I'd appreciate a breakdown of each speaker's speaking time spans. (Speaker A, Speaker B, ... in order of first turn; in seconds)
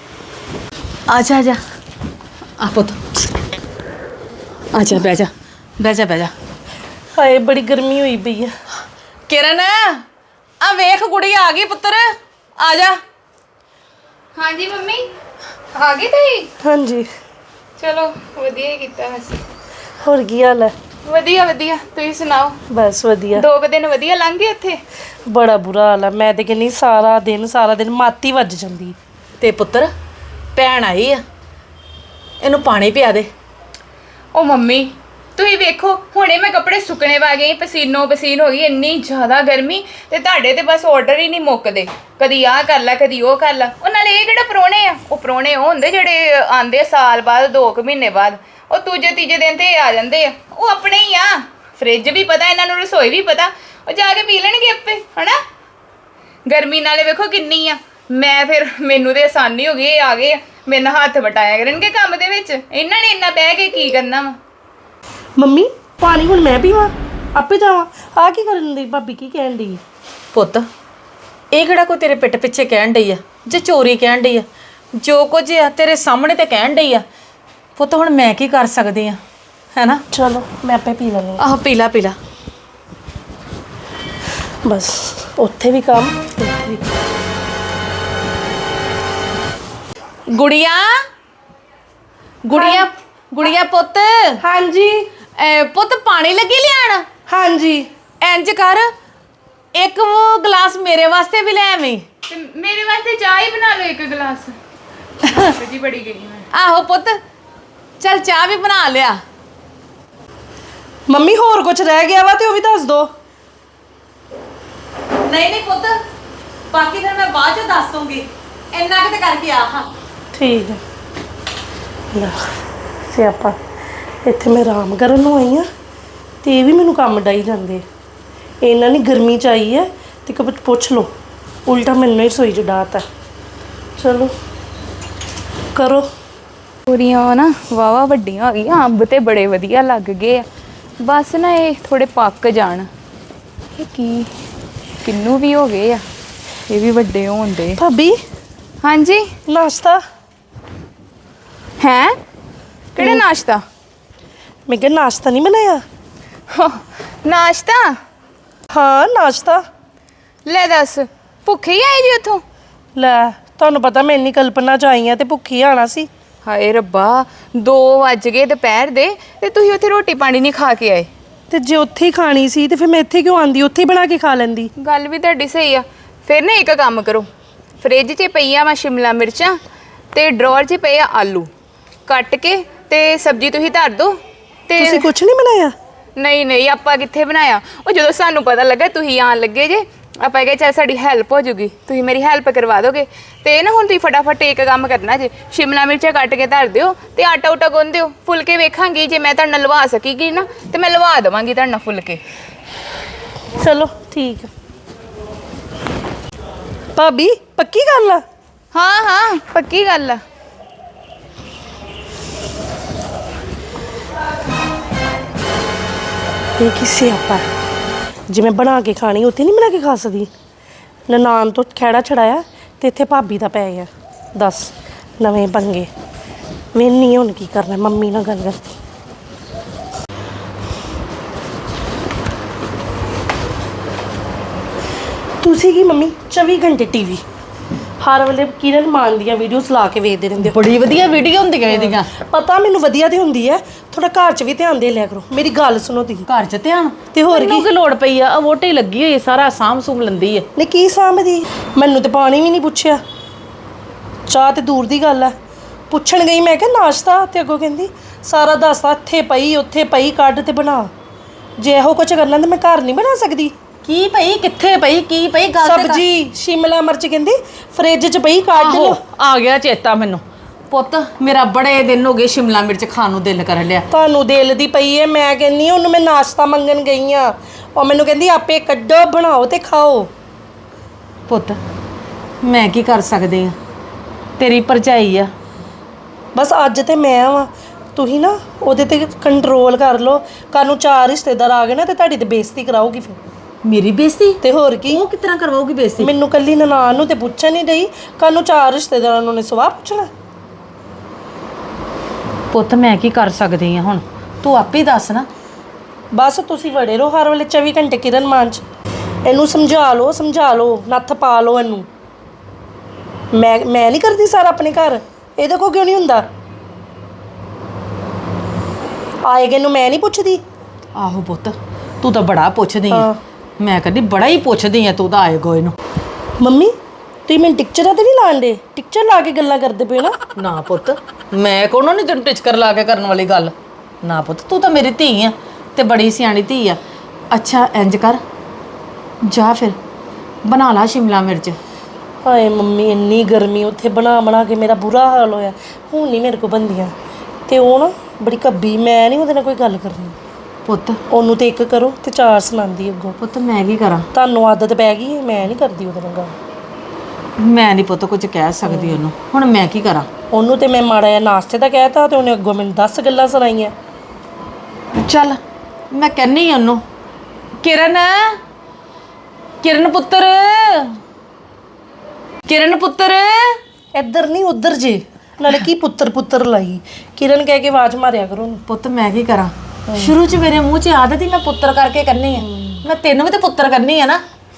Speaker A: 1.1-1.6, 2.6-3.0, 4.7-6.3, 9.3-10.0, 10.6-13.0, 29.4-29.9, 30.6-31.2, 32.4-33.3, 70.3-70.7, 71.5-74.5, 75.0-77.0, 77.8-79.2, 79.8-80.0, 81.4-82.2, 90.3-90.9, 92.5-94.4, 95.4-97.1, 98.2-98.9, 99.8-102.0, 106.5-107.2, 108.0-109.2, 115.2-116.0, 116.7-119.9, 240.4-242.1, 246.3-250.5, 263.8-266.0, 268.6-273.9, 281.3-281.6, 282.4-283.6, 284.4-285.3, 293.6-296.1, 302.5-305.3, 320.9-323.1, 323.6-325.8, 330.4-336.8, 337.3-338.2, 339.3-339.8, 340.5-341.6, 350.7-351.0, 353.2-354.1, 357.4-360.1, 364.9-365.4, 365.9-366.8, 367.6-368.4, 369.6-371.0, 372.5-373.6, 378.7-384.2
Speaker B: 7.2-8.5, 16.6-17.1, 20.0-20.7, 22.7-23.4, 25.3-29.0, 65.4-69.8, 80.1-81.4, 84.7-86.8, 92.5-92.9, 94.4-95.1, 97.3-97.9, 111.1-113.1, 120.3-120.8, 122.1-122.4, 123.1-123.6, 124.2-125.7, 126.4-127.8, 128.6-131.1, 131.7-133.0, 134.0-134.3, 135.8-136.1, 147.8-148.2, 149.5-150.0, 153.0-153.2, 154.7-155.8, 158.7-159.6, 163.0-166.1, 171.5-174.7, 184.8-185.7, 203.6-204.5, 207.0-208.2, 216.6-217.4, 218.3-220.3, 221.1-225.9, 226.7-228.6, 235.4-237.2, 238.0-240.6, 241.7-246.3, 247.1-247.7, 250.6-253.0, 254.3-255.3, 255.9-260.9, 261.6-263.5, 265.6-269.0, 273.9-280.1, 286.4-293.2, 294.4-295.1, 296.0-300.1, 306.1-308.6, 309.2-311.9, 313.3-316.3, 319.2-320.4, 322.9-323.2, 326.4-326.7, 327.3-330.2, 342.2-346.9, 347.5-350.2, 351.1-353.2, 354.1-356.3, 358.7-359.0, 360.3-363.7, 373.9-378.6, 382.4-382.8
Speaker C: 14.3-15.1, 15.8-16.5, 17.8-19.4, 21.1-22.6, 23.4-24.8, 34.3-55.4, 56.5-64.4, 102.3-104.5, 105.4-106.5, 136.9-140.5, 141.0-142.9, 143.8-144.3, 145.0-146.0, 146.7-147.8, 148.8-149.3, 151.8-152.2, 153.0-153.6, 156.5-157.9, 160.4-162.4, 166.4-171.1, 174.8-177.3, 177.8-179.6, 180.1-181.5, 182.1-185.1, 186.2-202.2, 208.7-210.2